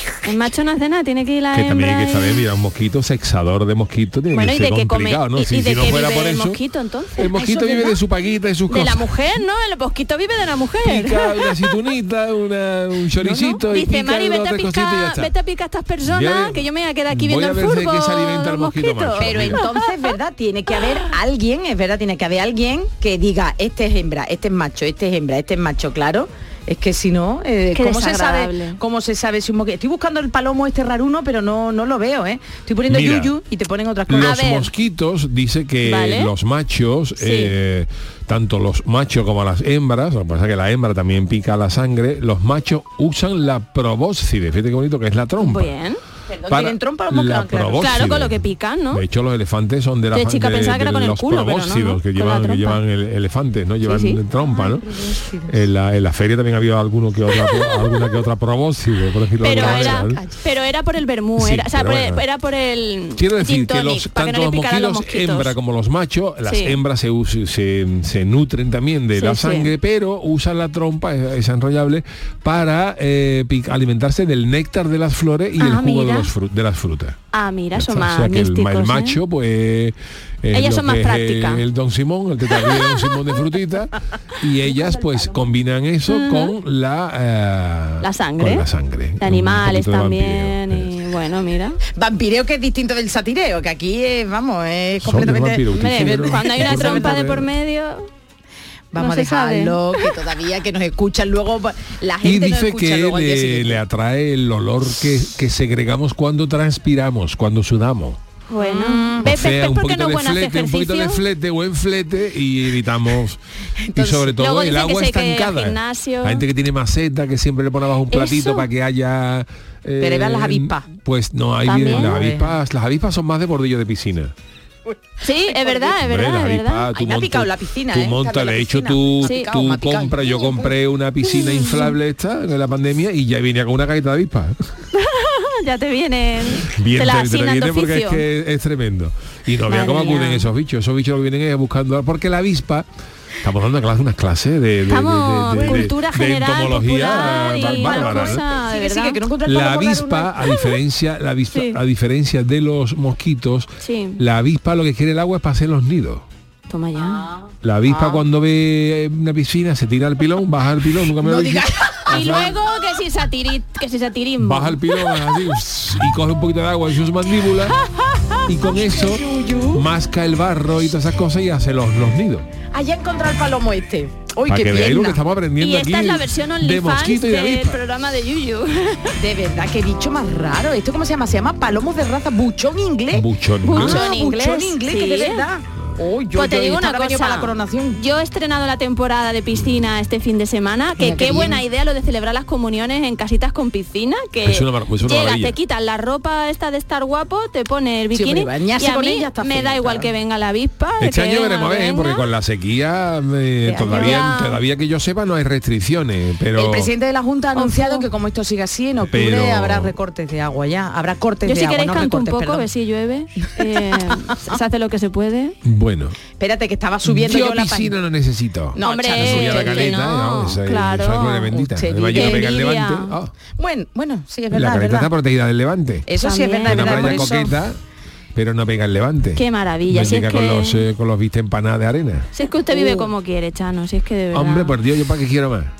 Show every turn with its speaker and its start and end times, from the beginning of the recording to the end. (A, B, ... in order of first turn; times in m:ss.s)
0:00.2-0:02.4 A
0:01.5-0:06.6 B
0:04.3-0:08.0 A
0:07.1-0:09.1 B
0:08.7-0:11.7 A
0:10.8-0:15.3 B
0:13.2-0:19.8 A
0:16.0-0:19.6 B
0:19.2-0:34.6 C
0:27.7-0:28.8 A
0:32.9-0:33.3 B
0:34.1-0:45.7 B
0:34.1-0:34.7 A
0:35.8-0:36.3 A
0:37.2-0:37.5 A
0:45.4-0:46.0 A
0:46.3-0:48.1 C
0:46.4-0:54.9 B
0:47.8-0:49.0 A
0:50.1-0:52.8 A
0:53.8-0:54.2 A
0:54.5-0:55.6 C
0:55.4-1:00.2 B
0:57.5-0:58.1 A
0:59.4-1:05.5 A
0:59.5-1:00.4 C
1:01.4-1:02.2 B
1:03.1-1:17.2 B
1:06.4-1:06.8 A
1:09.1-1:09.7 A
1:15.6-1:16.3 A
1:17.3-1:19.2 A
1:17.7-1:30.9 B
1:20.5-1:21.6 A
1:22.5-1:23.2 A
1:24.8-1:25.4 C
1:26.1-1:26.5 A
1:28.0-1:28.7 A
1:29.2-1:31.8 A
1:31.9-1:37.4 C
1:35.0-1:37.4 B
1:35.7-1:38.1 A
1:38.9-1:43.8 C
1:39.0-1:40.1 A
1:42.2-1:48.2 B
1:48.5-1:51.2 A
1:48.6-1:49.3 C
1:49.2-1:53.4 B
1:53.8-1:54.3 C
1:53.9-2:04.3 B
1:54.3-1:56.4 A
1:58.1-1:58.7 A
2:00.0-2:00.9 C
2:01.6-2:02.2 A
2:01.8-2:02.5 C
2:04.8-2:06.0 C
2:05.2-2:06.9 A
2:06.0-2:14.6 B
2:06.9-2:10.7 C
2:09.2-2:09.5 A
2:11.3-2:11.9 A
2:14.9-2:18.2 A
2:16.6-2:22.9 B
2:19.6-2:20.5 A
2:23.4-2:28.4 B
2:24.8-2:29.2 A
2:25.6-2:25.9 C
2:27.1-2:30.5 C
2:29.4-2:36.2 B
2:31.5-2:31.8 A
2:33.8-2:34.2 A
2:36.7-2:37.3 A
2:37.0-2:38.2 C
2:37.6-2:42.6 B
2:41.2-2:42.5 C
2:42.1-2:45.4 A
2:44.4-2:47.8 B
2:47.8-2:48.4 A
2:48.4-2:52.5 B
2:48.8-2:49.8 C
2:52.7-2:55.2 C
2:54.4-2:57.8 B
2:55.6-2:59.2 A
2:59.2-3:08.0 C
3:03.1-3:04.0 B
3:03.6-3:05.4 A
3:06.3-3:22.2 A
3:11.0-3:11.6 C
3:14.4-3:15.6 B
3:18.1-3:20.1 C
3:21.0-3:26.9 B
3:23.6-3:24.2 C
3:23.9-3:24.6 A
3:26.5-3:32.7 C
3:27.5-3:28.0 A
3:29.0-3:30.0 B
3:31.4-3:35.6 A
3:35.6-3:36.2 B
3:36.4-3:37.9 C
3:37.0-3:43.3 B
3:38.7-3:40.0 C
3:38.8-3:41.5 A
3:41.5-3:42.5 C
3:42.1-3:43.1 A
3:43.6-3:45.1 C
3:44.5-3:46.1 B
3:46.1-3:47.5 C
3:46.2-3:47.2 A
3:46.6-3:47.8 B
3:48.3-3:52.3 B
3:49.4-3:50.8 A
3:52.3-3:54.7 A
3:52.7-3:53.1 C
3:54.3-3:55.7 B